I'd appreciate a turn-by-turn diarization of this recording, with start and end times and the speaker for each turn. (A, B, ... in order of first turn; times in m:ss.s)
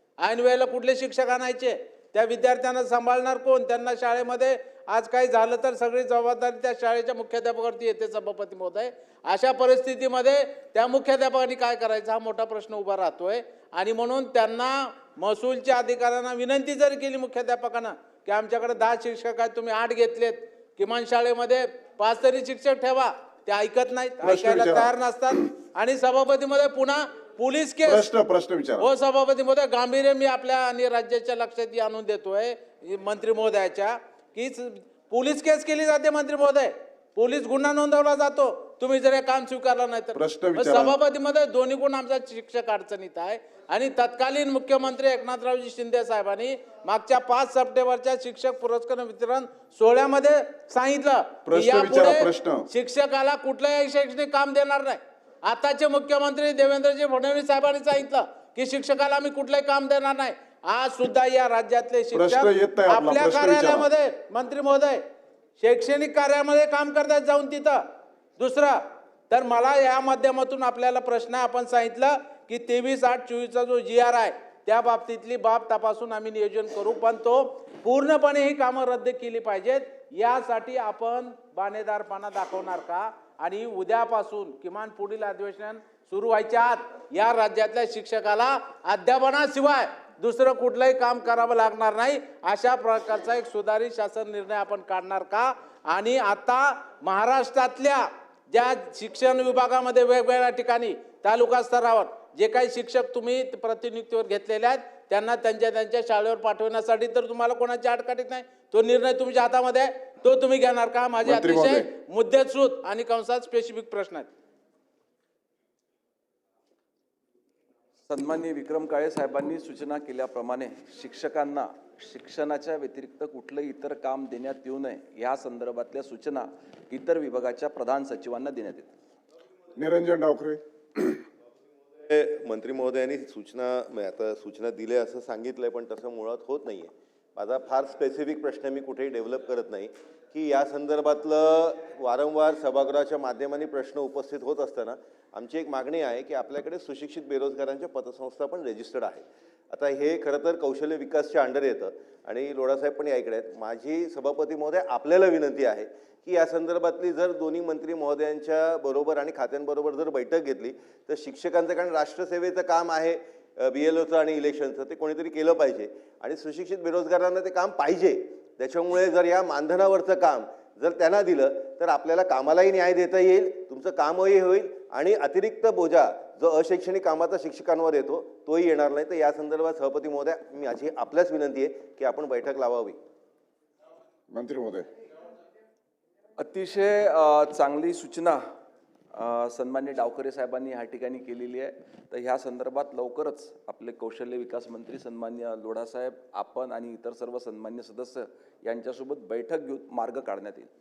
0:00.2-0:28.1 A
0:24.2-0:24.9 B
0:27.8-0:28.9 B
0:28.8-1:05.0 A
0:40.2-0:41.0 B
0:51.5-0:52.7 B
1:02.1-1:03.9 B
1:05.6-1:07.8 A
1:08.4-1:54.3 A
1:51.2-1:51.9 B
1:58.1-2:08.9 C
2:09.8-2:11.2 B
2:12.0-3:03.0 D
3:04.3-3:04.9 B
3:06.4-3:08.4 C
3:09.1-3:20.7 C